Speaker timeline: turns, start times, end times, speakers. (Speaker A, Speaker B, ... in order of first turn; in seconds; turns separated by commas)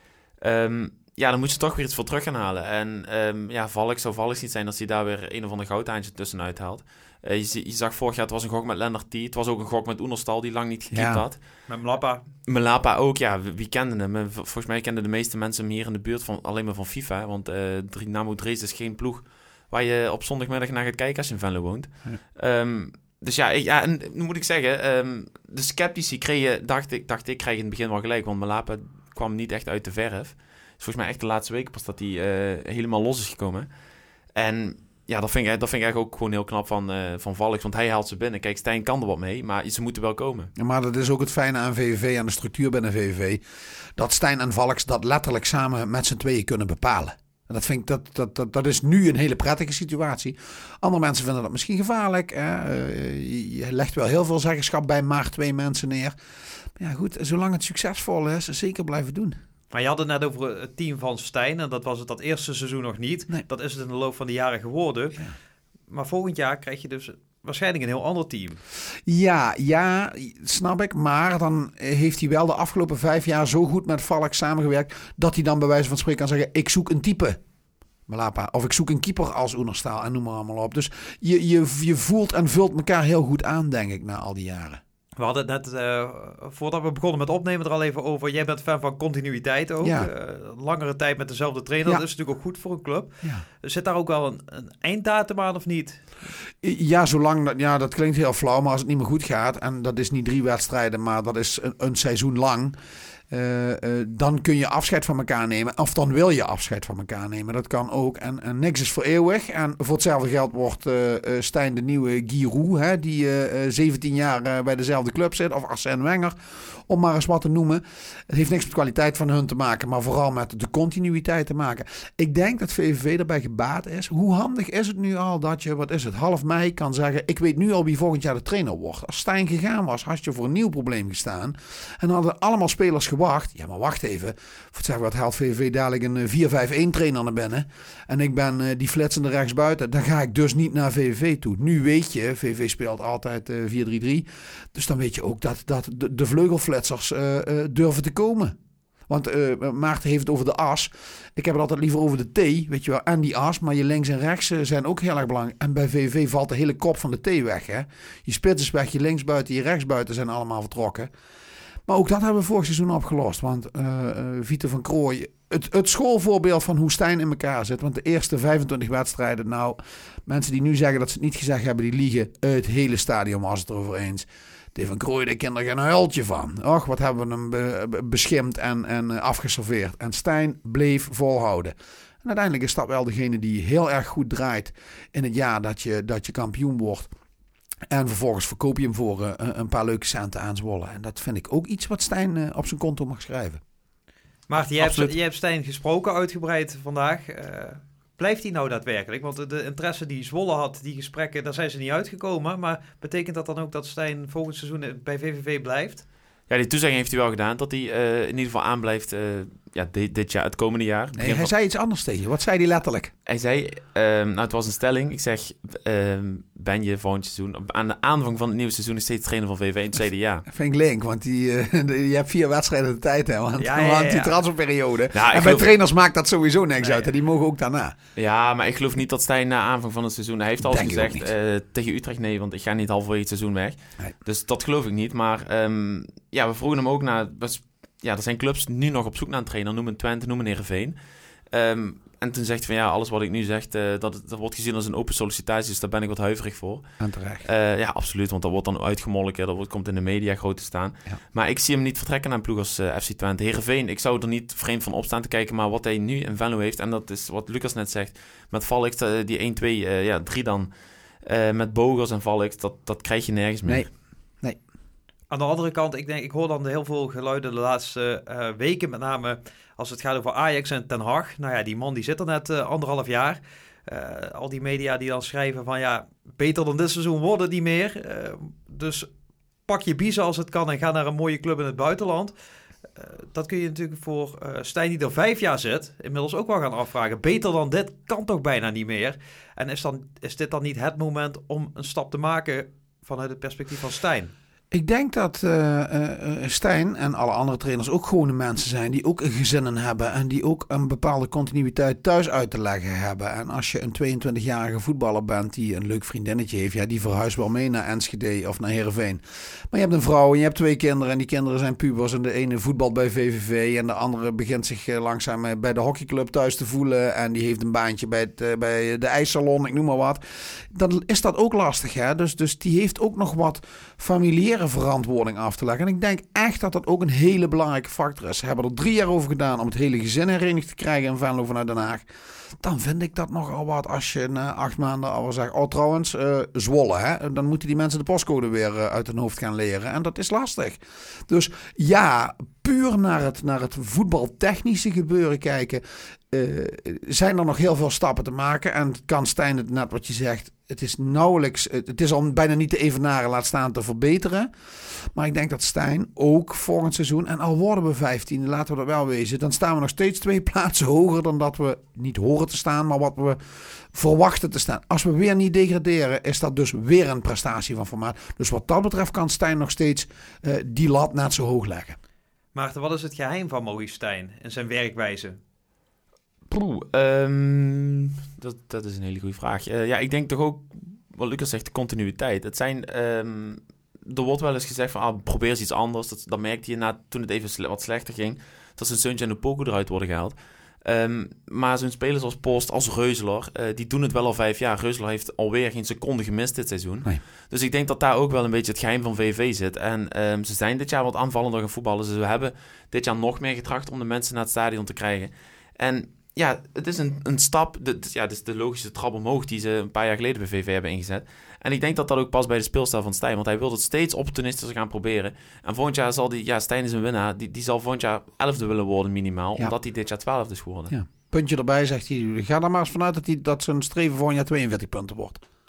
Speaker A: 0.4-11.4, Speaker B: 10.9-11.2, Speaker C: 11.7-12.2, Speaker A: 12.4-33.7, Speaker A: 34.3-40.5, Speaker B: 40.5-43.4, Speaker B: 44.0-56.1, Speaker B: 56.8-59.4, Speaker C: 59.7-65.2, Speaker C: 65.9-68.6, Speaker B: 69.1-77.4, Speaker B: 78.1-84.8, Speaker C: 85.2-96.0, Speaker B: 89.8-90.1, Speaker B: 96.6-102.8, Speaker B: 103.3-148.6, Speaker B: 149.1-161.1, Speaker B: 161.8-187.1, Speaker B: 187.9-193.6, Speaker C: 194.5-206.0, Speaker A: 194.6-195.1, Speaker A: 206.5-211.5, Speaker B: 211.2-213.1, Speaker A: 213.3-220.4, Speaker B: 220.5-227.9, Speaker C: 223.6-224.3, Speaker A: 225.1-225.7, Speaker A: 228.2-240.9, Speaker B: 230.6-231.3, Speaker A: 241.5-246.8, Speaker B: 247.0-247.5, Speaker A: 247.4-260.7, Speaker A: 261.2-263.9, Speaker C: 265.3-279.1, Speaker C: 279.7-282.3, Speaker C: 282.9-294.3, Speaker B: 294.7-332.1, Speaker B: 332.6-372.0, Speaker C: 372.5-375.4, Speaker A: 376.5-420.9, Speaker B: 420.9-425.4